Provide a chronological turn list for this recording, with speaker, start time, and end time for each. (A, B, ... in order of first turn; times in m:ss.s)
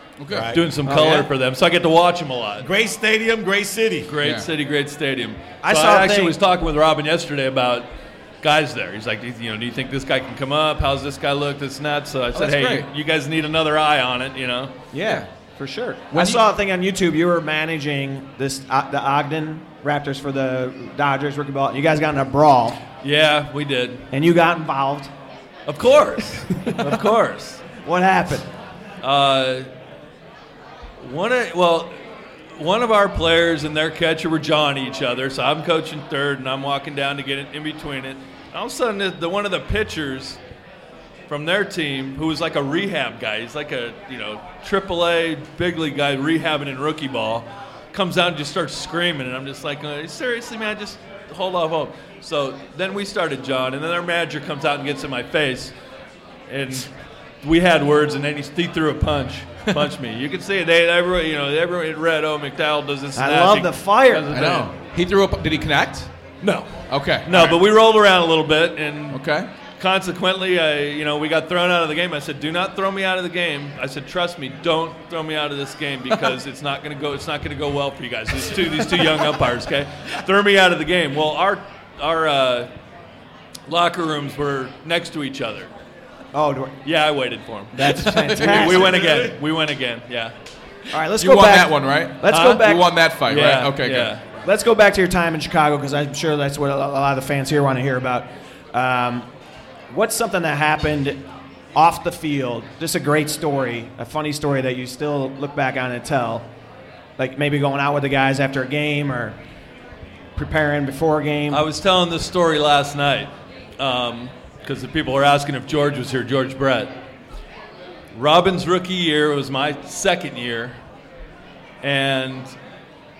0:00.2-0:00.5 A
0:00.3-0:00.7 B
0:00.5-0:02.7 C
0:00.8-0:01.3 D
0:02.6-0:04.1 B
0:04.1-0:07.9 C
0:05.6-0:06.4 D
0:08.4-0:14.7 C
0:12.3-0:12.8 A
0:14.9-0:22.8 D
0:15.0-0:15.2 A
0:16.1-0:16.5 A
0:23.0-0:24.1 C
0:24.1-0:25.1 D
0:25.7-0:27.6 C
0:26.6-0:26.9 D
0:27.8-0:28.5 D
0:29.0-0:29.7 C
0:31.0-0:31.9 C
0:32.6-0:40.4 C
0:41.3-0:55.7 C
0:56.5-0:56.9 C
0:57.4-1:04.7 C
1:03.2-1:04.3 D
1:04.3-1:06.1 A
1:06.4-1:09.2 C
1:06.9-1:07.6 A
1:09.1-1:09.5 A
1:09.8-1:22.7 C
1:23.7-1:25.7 C
1:26.3-1:26.8 D
1:26.8-1:30.3 C
1:27.7-1:29.1 D
1:27.9-1:28.9 A
1:28.9-1:29.3 B
1:30.9-1:32.9 D
1:31.2-1:34.1 A
1:32.3-1:32.6 C
1:33.2-1:34.2 C
1:34.4-1:39.3 D
1:39.9-1:46.5 D
1:47.2-1:49.4 D
1:50.4-1:51.6 D
1:51.5-1:57.0 C
1:58.1-2:00.8 C
2:01.8-2:02.6 C